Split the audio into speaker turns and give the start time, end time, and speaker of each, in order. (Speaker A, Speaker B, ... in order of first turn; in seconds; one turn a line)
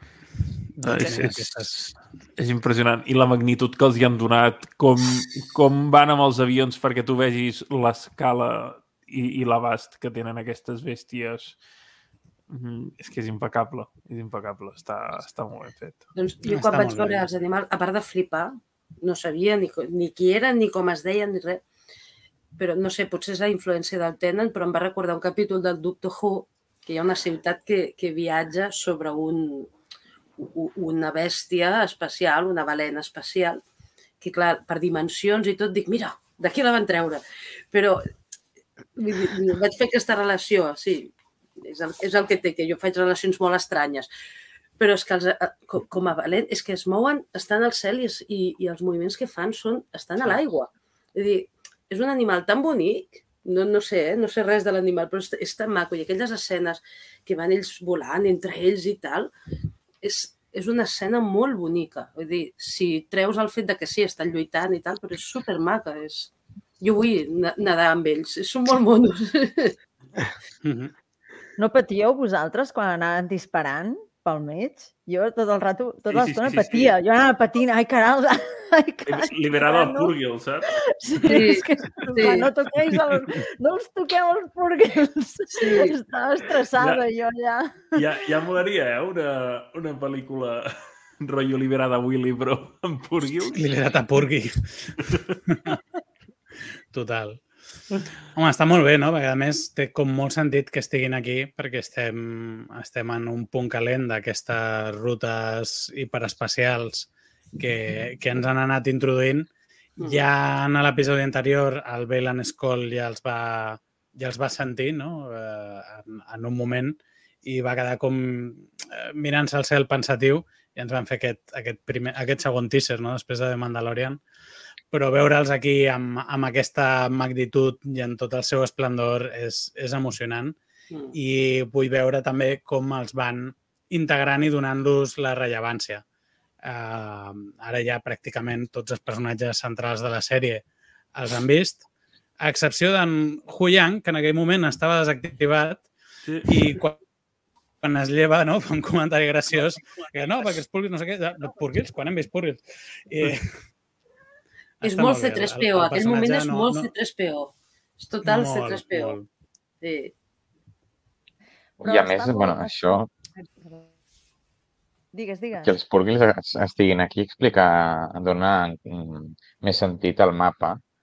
Speaker A: 0.8-1.8
Speaker B: 0.8-11.6
Speaker B: 12.5-16.1
Speaker C: 16.1-21.6
Speaker A: 16.5-17.2
Speaker C: 22.6-29.7
Speaker C: 30.4-33.6
Speaker C: 34.2-38.1
Speaker C: 39.0-44.1
Speaker C: 44.8-59.3
Speaker C: 60.0-69.8
Speaker A: 70.6-70.9
Speaker D: 71.6-80.1
Speaker B: 76.1-77.0
Speaker B: 79.1-80.7
Speaker D: 80.9-88.2
Speaker C: 81.2-82.5
Speaker C: 85.5-85.9
Speaker B: 86.8-87.0
Speaker B: 88.0-93.6
Speaker A: 93.5-95.8
Speaker A: 96.9-97.4
Speaker A: 98.3-109.5
Speaker A: 110.0-124.2
Speaker A: 124.9-130.6
Speaker C: 130.9-131.2
Speaker A: 131.1-136.0
Speaker A: 136.6-141.8
Speaker A: 142.4-145.9
Speaker B: 146.2-146.5
Speaker A: 146.5-147.0
Speaker A: 147.8-153.5
Speaker A: 154.8-156.9
Speaker C: 154.8-159.2
Speaker A: 158.2-159.3
Speaker C: 159.8-160.1
Speaker D: 161.8-163.9
Speaker E: 161.8-163.1
Speaker D: 165.1-165.8
Speaker E: 165.6-170.8